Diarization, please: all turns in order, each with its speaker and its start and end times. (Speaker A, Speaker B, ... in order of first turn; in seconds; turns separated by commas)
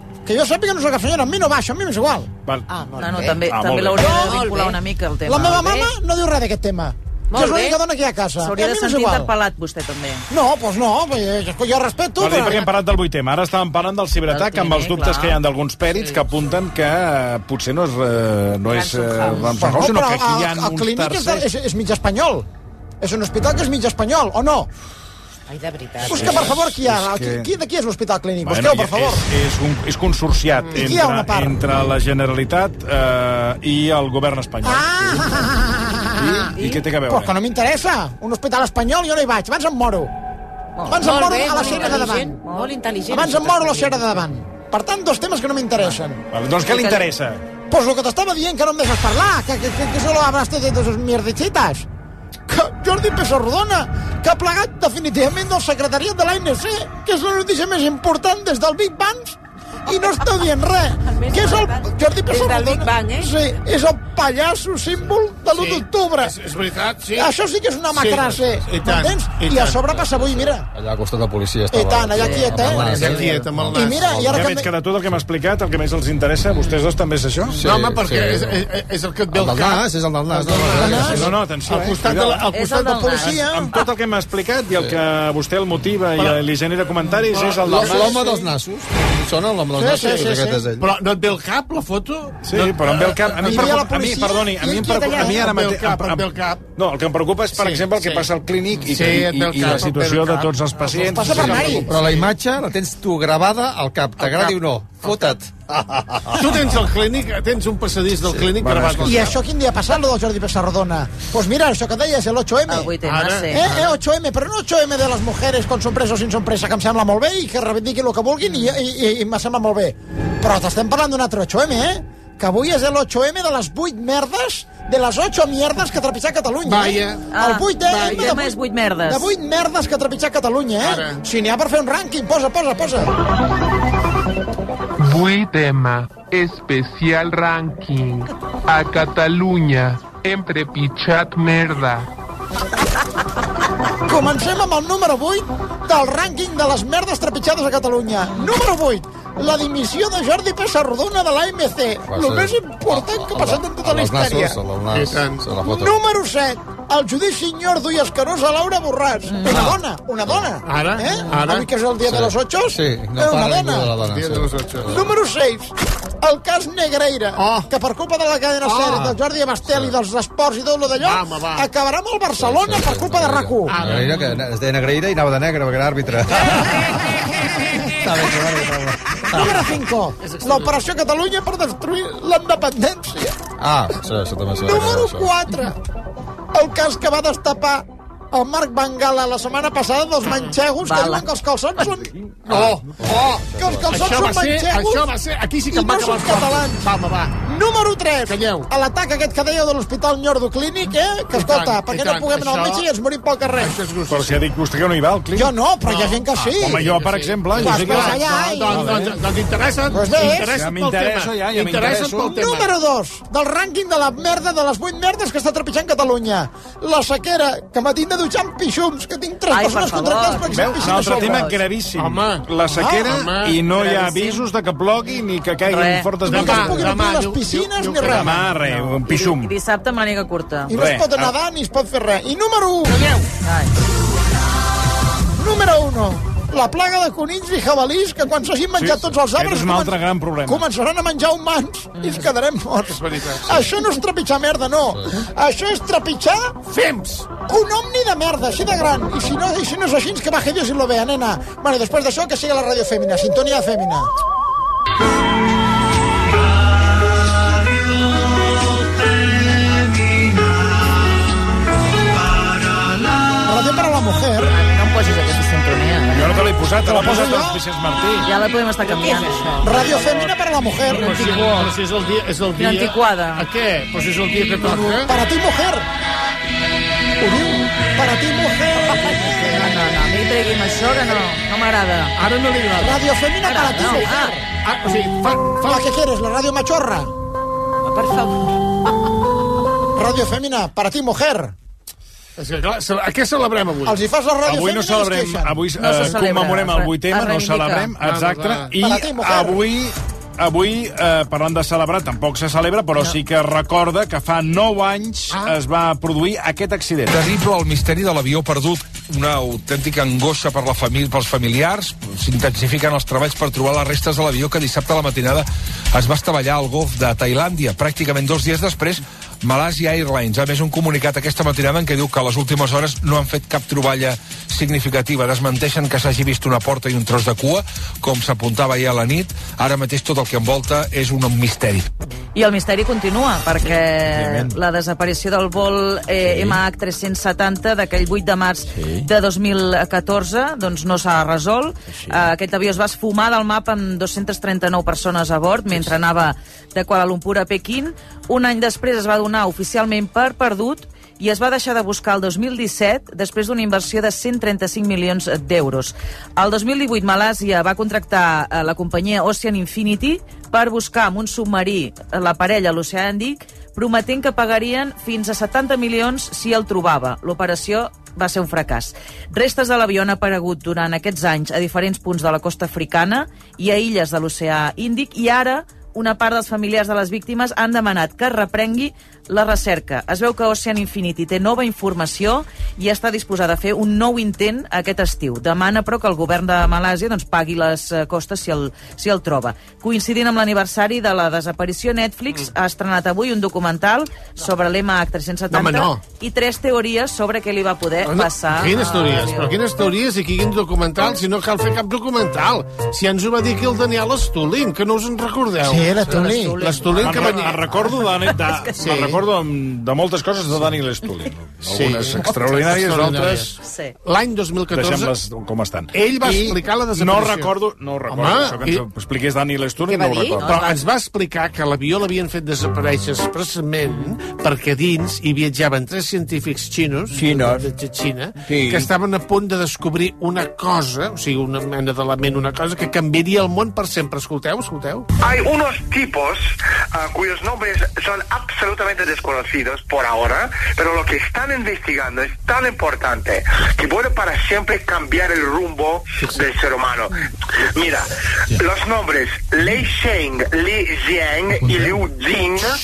Speaker A: 0.2-2.3, Speaker B: 2.7-3.4, Speaker C: 3.0-5.9, Speaker D: 3.5-4.2, Speaker B: 4.0-4.8, Speaker A: 5.3-9.3, Speaker B: 7.3-7.8, Speaker C: 8.4-10.3, Speaker A: 10.3-12.7, Speaker D: 12.2-21.5, Speaker C: 14.3-15.4, Speaker B: 18.7-19.8, Speaker A: 19.6-22.5, Speaker A: 23.0-24.7, Speaker B: 25.5-26.6, Speaker A: 26.1-29.3, Speaker D: 26.1-27.5, Speaker D: 28.4-35.4, Speaker A: 30.7-31.6, Speaker A: 34.6-40.1, Speaker D: 36.2-37.3, Speaker C: 40.8-42.7, Speaker A: 40.9-42.4, Speaker B: 41.0-44.3, Speaker A: 43.1-46.2, Speaker D: 46.3-47.5, Speaker C: 46.6-47.1, Speaker A: 47.7-51.9, Speaker A: 52.5-66.4, Speaker B: 61.1-63.3, Speaker E: 65.5-67.3, Speaker A: 67.2-70.7, Speaker E: 67.9-69.8, Speaker F: 69.8-74.4, Speaker A: 71.7-73.2, Speaker C: 72.2-73.1, Speaker E: 72.8-74.3, Speaker A: 73.7-74.7, Speaker D: 74.3-77.6, Speaker F: 77.6-78.7, Speaker E: 77.6-83.0, Speaker F: 79.3-81.2, Speaker A: 80.7-81.3, Speaker D: 81.0-82.5, Speaker C: 82.5-83.9, Speaker A: 82.6-83.7, Speaker D: 83.2-88.2, Speaker E: 87.3-88.2, Speaker F: 87.7-90.9, Speaker A: 89.8-90.7, Speaker E: 90.8-93.9, Speaker D: 92.5-101.8, Speaker A: 93.4-95.5, Speaker E: 95.2-96.6, Speaker E: 97.5-98.3, Speaker E: 98.8-102.3, Speaker A: 101.1-101.9, Speaker F: 101.7-106.7, Speaker E: 104.2-105.4, Speaker E: 106.4-109.3, Speaker F: 108.3-109.3, Speaker A: 109.0-113.0, Speaker C: 112.7-113.8, Speaker E: 113.0-113.9, Speaker A: 113.5-128.6, Speaker E: 126.7-127.3, Speaker C: 127.3-129.3, Speaker E: 127.8-128.3, Speaker A: 129.1-133.1, Speaker E: 130.8-131.2, Speaker G: 135.0-142.1, Speaker A: 144.1-154.6, Speaker F: 152.1-155.9, Speaker E: 154.9-155.5, Speaker A: 155.6-164.0, Speaker C: 159.3-159.7, Speaker E: 159.5-159.8, Speaker E: 160.7-161.7, Speaker F: 162.1-165.1, Speaker E: 164.0-164.9, Speaker A: 164.9-173.9, Speaker E: 167.4-167.7, Speaker E: 168.6-169.0, Speaker F: 168.9-169.9, Speaker E: 171.0-171.7, Speaker F: 172.4-176.9, Speaker E: 173.7-174.4, Speaker F: 178.0-179.7, Speaker A: 179.3-183.4, Speaker F: 183.6-185.3, Speaker A: 184.6-185.8, Speaker A: 186.5-195.1, Speaker C: 190.8-191.3, Speaker F: 192.5-194.1, Speaker E: 193.9-197.4, Speaker A: 195.7-203.9, Speaker E: 198.3-198.7, Speaker E: 201.3-202.9, Speaker E: 203.6-204.4, Speaker D: 204.1-205.5, Speaker A: 205.3-207.0, Speaker E: 205.8-212.7, Speaker D: 206.6-209.1, Speaker A: 207.5-209.1, Speaker A: 209.9-210.6, Speaker D: 210.2-212.5, Speaker A: 212.2-221.5, Speaker C: 219.5-221.6, Speaker D: 220.5-226.9, Speaker E: 222.0-222.5, Speaker A: 222.7-223.3, Speaker E: 223.1-223.6, Speaker C: 223.8-224.3, Speaker C: 225.7-226.1, Speaker A: 226.3-228.4, Speaker E: 226.3-228.5, Speaker D: 228.1-229.5, Speaker C: 228.7-230.7, Speaker A: 230.7-233.1, Speaker D: 230.7-231.3, Speaker E: 232.9-233.2, Speaker C: 233.4-233.7, Speaker A: 235.4-246.6, Speaker D: 238.8-240.7, Speaker C: 242.0-242.3, Speaker E: 242.9-243.6, Speaker E: 246.7-247.4, Speaker A: 247.3-254.1, Speaker A: 263.4-264.6, Speaker C: 264.4-266.4, Speaker D: 266.1-268.3, Speaker A: 266.8-267.6, Speaker C: 268.2-271.7, Speaker A: 269.6-271.6, Speaker E: 270.9-275.1, Speaker C: 272.6-273.5, Speaker A: 274.7-275.9, Speaker A: 277.2-279.7, Speaker C: 278.9-282.1, Speaker E: 282.2-283.0, Speaker A: 282.8-284.5, Speaker C: 283.4-284.4, Speaker E: 284.6-285.9, Speaker A: 285.6-287.1, Speaker C: 287.9-288.4, Speaker A: 289.9-291.5, Speaker E: 292.4-294.0, Speaker A: 293.8-295.6, Speaker D: 294.4-307.1, Speaker C: 295.8-297.9, Speaker E: 298.0-298.7, Speaker A: 298.8-299.6, Speaker H: 307.1-332.0, Speaker C: 332.4-399.6, Speaker D: 334.1-334.5, Speaker D: 336.3-336.6, Speaker E: 395.5-396.0, Speaker E: 398.1-407.6, Speaker A: 405.6-406.8, Speaker C: 406.1-408.9, Speaker D: 407.0-413.5, Speaker E: 408.8-409.2, Speaker E: 411.7-415.1, Speaker C: 413.6-413.9, Speaker D: 414.7-420.5, Speaker E: 415.9-417.5, Speaker E: 418.1-418.8, Speaker B: 419.9-420.4, Speaker C: 420.4-420.8, Speaker E: 420.5-435.1, Speaker I: 435.2-447.2, Speaker I: 447.8-452.7